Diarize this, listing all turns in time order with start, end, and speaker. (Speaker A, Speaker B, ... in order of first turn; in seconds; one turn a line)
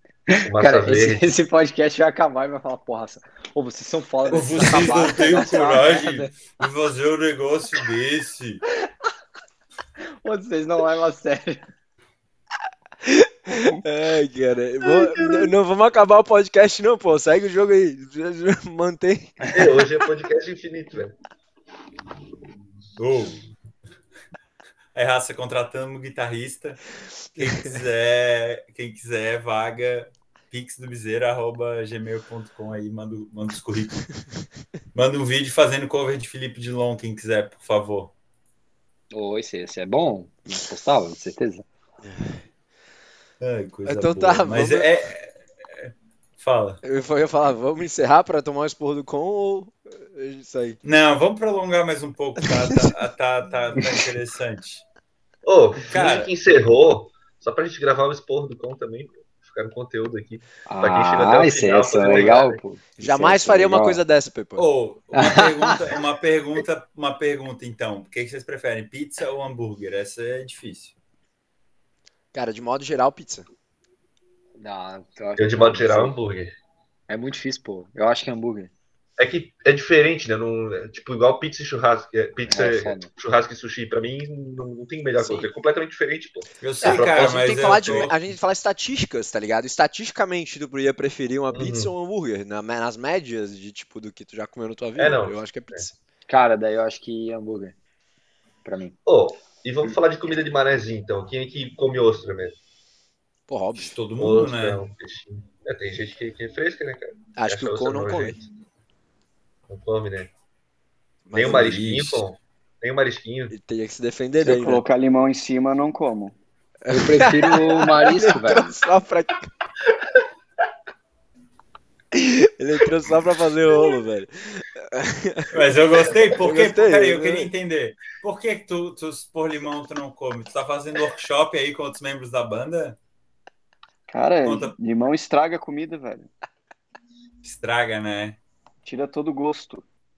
Speaker A: 0.3-6.5
Speaker B: 0.5-1.3
Speaker C: 4.3-8.6
Speaker A: 10.2-11.6
Speaker D: 13.0-19.7
Speaker B: 19.5-21.2
Speaker C: 23.0-23.5
Speaker C: 24.9-34.1
Speaker C: 35.0-38.1
Speaker A: 39.1-41.7
Speaker D: 42.0-42.5
Speaker C: 43.4-46.8
Speaker D: 43.9-44.9
Speaker D: 46.8-50.8
Speaker C: 50.9-54.9
Speaker D: 52.6-52.9
Speaker B: 55.4-62.6
Speaker C: 55.8-56.3
Speaker A: 60.7-64.0
Speaker D: 63.0-64.7
Speaker C: 64.6-71.0
Speaker A: 65.2-65.8
Speaker D: 72.3-73.5
Speaker A: 74.6-76.2
Speaker B: 75.4-76.5
Speaker A: 77.1-78.7
Speaker B: 79.2-88.1
Speaker A: 82.5-83.1
Speaker D: 85.2-85.5
Speaker C: 86.6-88.2
Speaker D: 86.8-96.0
Speaker B: 91.5-91.9
Speaker B: 95.0-95.9
Speaker A: 96.3-97.8
Speaker A: 98.7-99.0
Speaker B: 99.1-102.6
Speaker D: 103.5-104.0
Speaker C: 103.8-104.8
Speaker B: 104.2-108.5
Speaker D: 107.4-108.4
Speaker B: 109.7-110.3
Speaker D: 111.3-111.6
Speaker B: 111.3-113.5
Speaker C: 111.5-112.2
Speaker D: 113.5-114.8
Speaker E: 114.4-116.4
Speaker D: 116.8-119.5
Speaker A: 116.9-118.8
Speaker D: 122.1-125.6
Speaker C: 125.5-133.0
Speaker D: 126.3-127.5
Speaker E: 134.1-136.3
Speaker C: 134.4-134.8
Speaker C: 137.4-138.4
Speaker E: 138.8-139.8